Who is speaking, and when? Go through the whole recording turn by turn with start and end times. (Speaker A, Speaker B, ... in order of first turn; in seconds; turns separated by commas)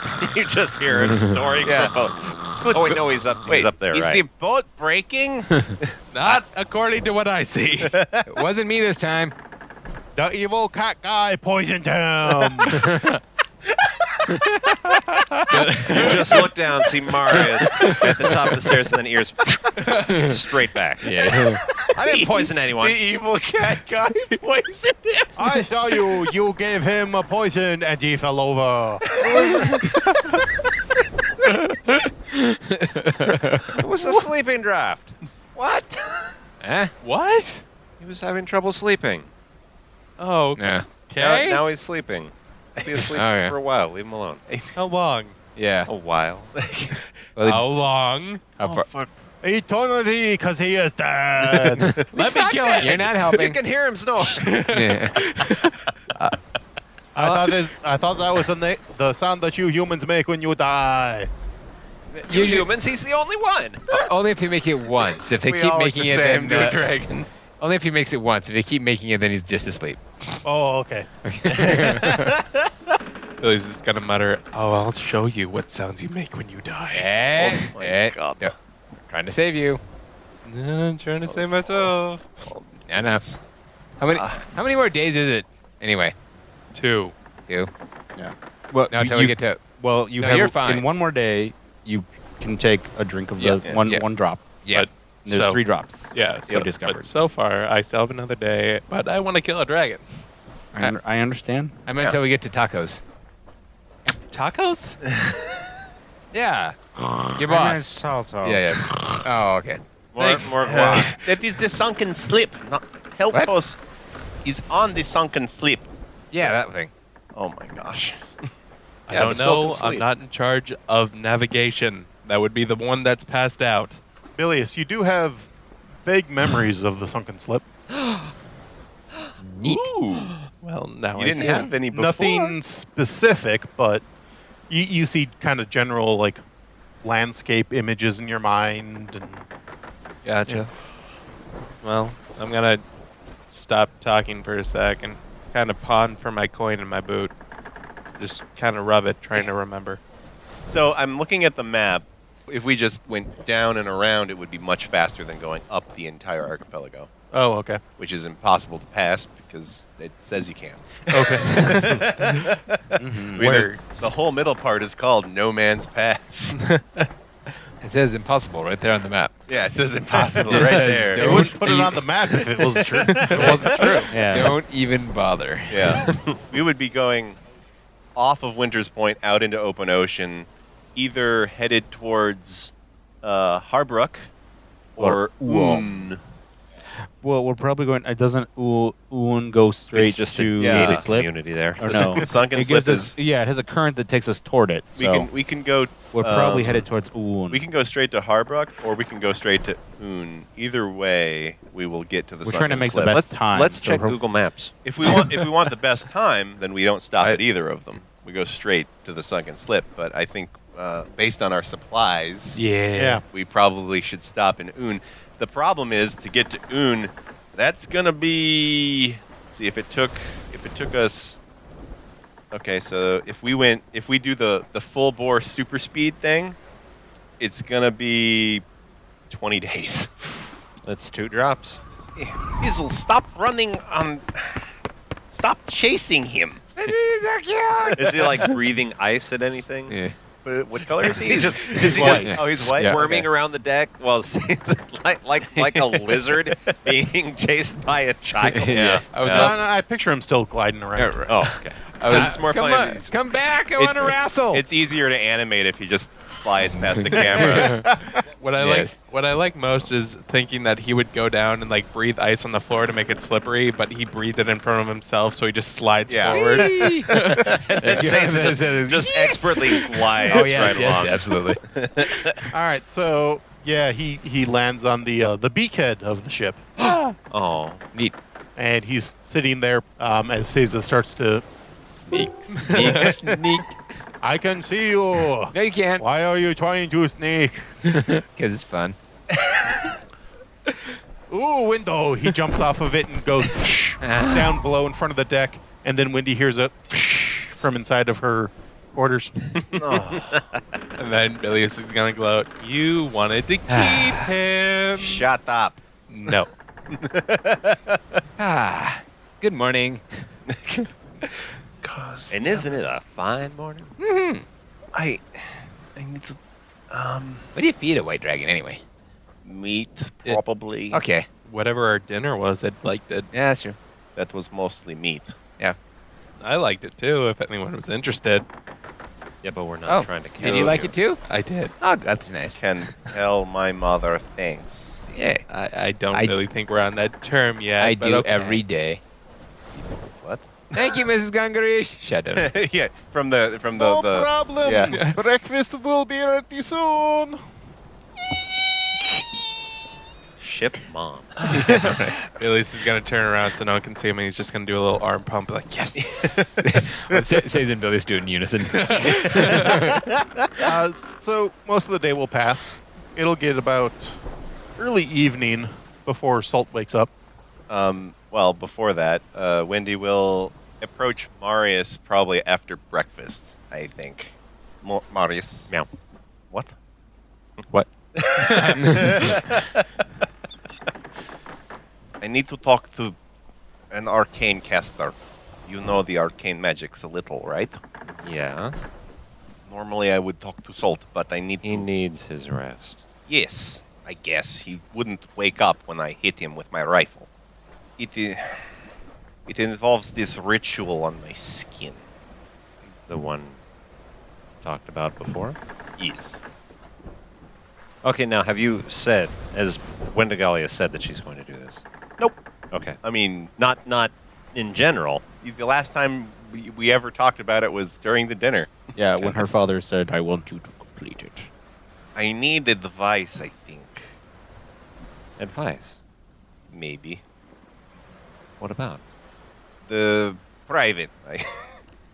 Speaker A: 0.2-4.2, Speaker B: 1.6-5.9, Speaker C: 6.1-8.0, Speaker B: 7.8-8.3, Speaker D: 8.3-9.3, Speaker E: 10.2-12.8, Speaker D: 12.6-13.2, Speaker C: 15.5-16.4, Speaker D: 15.5-16.1, Speaker A: 15.8-21.1, Speaker B: 16.0-16.4, Speaker B: 17.3-17.6, Speaker D: 19.9-20.4, Speaker D: 21.0-21.6, Speaker B: 21.3-25.6, Speaker A: 21.9-23.0, Speaker E: 25.4-29.1, Speaker B: 29.1-29.9, Speaker A: 29.2-29.9, Speaker A: 33.7-35.2, Speaker B: 35.5-36.4, Speaker D: 36.6-36.9, Speaker C: 37.0-37.6, Speaker A: 38.0-39.3, Speaker C: 40.2-41.6, Speaker D: 40.6-40.9, Speaker A: 41.2-44.4, Speaker B: 42.8-43.1, Speaker D: 43.1-43.6, Speaker B: 44.5-44.8, Speaker C: 44.8-45.4, Speaker D: 45.6-45.9, Speaker A: 45.9-46.5, Speaker B: 46.6-47.0, Speaker D: 47.4-47.6, Speaker C: 47.4-48.5, Speaker D: 48.6-48.9, Speaker B: 48.6-49.1, Speaker E: 49.4-52.0, Speaker D: 51.8-52.0, Speaker C: 52.1-53.1, Speaker A: 52.7-54.6, Speaker D: 52.8-53.6, Speaker C: 54.2-55.9, Speaker D: 54.7-55.2, Speaker E: 57.1-61.3, Speaker D: 57.2-57.5, Speaker D: 62.1-62.7, Speaker A: 62.3-63.9, Speaker D: 63.9-66.8, Speaker B: 65.4-67.3, Speaker D: 67.6-70.0, Speaker E: 70.4-71.1, Speaker D: 71.2-72.4, Speaker C: 73.4-77.1, Speaker D: 76.9-78.5, Speaker B: 77.3-78.5, Speaker D: 79.1-79.8, Speaker C: 80.5-82.2, Speaker B: 81.2-83.4, Speaker D: 82.9-83.3, Speaker D: 84.0-86.2, Speaker B: 84.1-84.4, Speaker C: 86.7-87.1, Speaker D: 87.5-87.7, Speaker F: 88.2-94.4, Speaker D: 88.9-89.6, Speaker D: 90.1-90.8, Speaker D: 93.4-94.0, Speaker C: 94.7-95.6, Speaker F: 95.3-97.1, Speaker C: 96.1-100.1, Speaker F: 100.8-101.8, Speaker D: 101.9-103.0, Speaker C: 104.3-105.0, Speaker D: 106.3-109.8, Speaker F: 107.4-108.7, Speaker A: 110.1-111.2, Speaker C: 110.2-111.2, Speaker B: 110.6-113.8, Speaker B: 114.4-115.9, Speaker D: 116.3-116.9, Speaker B: 117.3-118.5, Speaker C: 119.1-124.0, Speaker A: 119.1-120.0, Speaker E: 124.4-125.5, Speaker E: 126.0-127.6, Speaker D: 129.4-130.3, Speaker B: 129.7-130.3, Speaker C: 130.6-131.8, Speaker B: 131.2-132.6, Speaker D: 131.4-131.7, Speaker E: 131.9-134.0, Speaker E: 134.7-136.4, Speaker E: 137.0-139.4, Speaker C: 140.2-140.7, Speaker C: 141.8-142.8, Speaker C: 143.5-147.3, Speaker C: 148.2-150.0, Speaker B: 150.7-157.1, Speaker E: 157.3-157.8, Speaker B: 158.0-166.6, Speaker C: 161.2-162.4, Speaker F: 163.0-163.4, Speaker C: 163.4-164.1, Speaker C: 166.6-167.1, Speaker D: 167.8-169.3, Speaker B: 169.5-171.5, Speaker E: 170.2-174.1, Speaker D: 170.4-172.4, Speaker B: 173.0-174.1, Speaker F: 173.3-174.6, Speaker D: 173.5-176.1, Speaker B: 175.7-177.4, Speaker B: 178.2-184.3, Speaker B: 185.0-186.2, Speaker F: 185.0-185.8, Speaker F: 187.2-195.3, Speaker A: 189.9-192.3, Speaker B: 190.6-191.0, Speaker B: 191.9-193.1, Speaker B: 195.0-196.9, Speaker F: 196.1-197.6, Speaker B: 197.5-203.3, Speaker F: 202.4-204.2, Speaker A: 203.3-204.7, Speaker B: 204.8-212.6, Speaker C: 212.6-213.2, Speaker E: 213.0-213.2, Speaker B: 213.3-221.4, Speaker B: 222.5-226.6, Speaker B: 227.4-228.6, Speaker B: 229.3-230.3, Speaker A: 230.9-231.8, Speaker B: 232.2-234.7, Speaker B: 235.3-236.7, Speaker D: 236.8-238.6, Speaker A: 237.9-240.0, Speaker D: 239.9-240.2, Speaker B: 240.4-243.2, Speaker A: 241.0-249.5, Speaker D: 241.8-243.3, Speaker B: 245.6-246.5, Speaker D: 248.4-249.6, Speaker B: 248.7-249.1, Speaker E: 249.2-251.2, Speaker D: 251.0-254.7, Speaker A: 251.3-253.1, Speaker B: 253.8-257.8, Speaker D: 256.8-257.9, Speaker E: 257.6-258.2, Speaker C: 258.3-267.5, Speaker D: 258.6-259.0, Speaker B: 266.1-266.8, Speaker D: 266.3-271.6, Speaker B: 267.4-272.5, Speaker A: 267.7-270.9, Speaker E: 272.5-276.6, Speaker A: 277.3-277.8, Speaker E: 278.6-281.4, Speaker D: 281.9-283.8, Speaker C: 282.5-283.4, Speaker E: 284.2-287.9, Speaker D: 285.5-286.1, Speaker D: 288.0-289.0, Speaker E: 291.3-299.8, Speaker D: 294.0-294.6, Speaker B: 299.7-300.4, Speaker C: 301.0-305.3, Speaker D: 303.7-304.3, Speaker B: 305.0-308.2, Speaker C: 306.1-306.5, Speaker D: 308.4-310.3, Speaker B: 310.5-310.9, Speaker B: 311.8-312.7, Speaker A: 312.3-313.9, Speaker D: 314.0-314.4, Speaker B: 314.9-316.4, Speaker B: 316.9-317.5, Speaker D: 317.6-318.8, Speaker B: 319.4-321.0, Speaker D: 320.9-321.3, Speaker C: 321.5-323.3, Speaker D: 323.3-323.8, Speaker B: 324.2-325.4, Speaker C: 326.4-328.5, Speaker A: 329.4-331.0, Speaker D: 329.9-331.2, Speaker C: 330.4-331.7, Speaker B: 330.5-330.7, Speaker D: 331.8-332.6, Speaker B: 332.5-335.3, Speaker D: 335.1-335.4, Speaker C: 335.5-338.6, Speaker D: 336.1-336.4, Speaker D: 337.8-339.0, Speaker B: 339.7-340.9, Speaker D: 340.7-342.5, Speaker B: 342.3-344.9, Speaker E: 343.7-347.4, Speaker C: 344.9-345.2, Speaker A: 350.4-351.4, Speaker D: 351.6-352.0, Speaker C: 351.7-356.5, Speaker B: 356.0-356.6, Speaker D: 356.6-360.1, Speaker C: 358.7-359.8, Speaker B: 359.2-359.5, Speaker E: 360.6-364.2, Speaker E: 364.8-367.1, Speaker B: 367.7-375.7, Speaker A: 377.7-379.4, Speaker B: 378.2-379.9, Speaker D: 378.8-379.1, Speaker B: 382.2-383.2, Speaker B: 383.9-387.8, Speaker A: 388.1-388.9, Speaker B: 389.7-391.9, Speaker A: 391.6-393.0, Speaker B: 393.3-397.3, Speaker B: 398.0-398.7, Speaker B: 399.5-402.0, Speaker A: 403.1-403.6, Speaker A: 404.6-405.6, Speaker B: 406.0-406.4, Speaker A: 408.0-411.8, Speaker A: 412.7-413.0, Speaker B: 413.0-413.5, Speaker A: 413.6-415.2, Speaker B: 415.4-418.8, Speaker F: 418.9-421.5, Speaker B: 422.1-424.2, Speaker A: 425.4-426.0, Speaker B: 426.7-427.2, Speaker A: 428.6-429.0, Speaker B: 429.9-431.8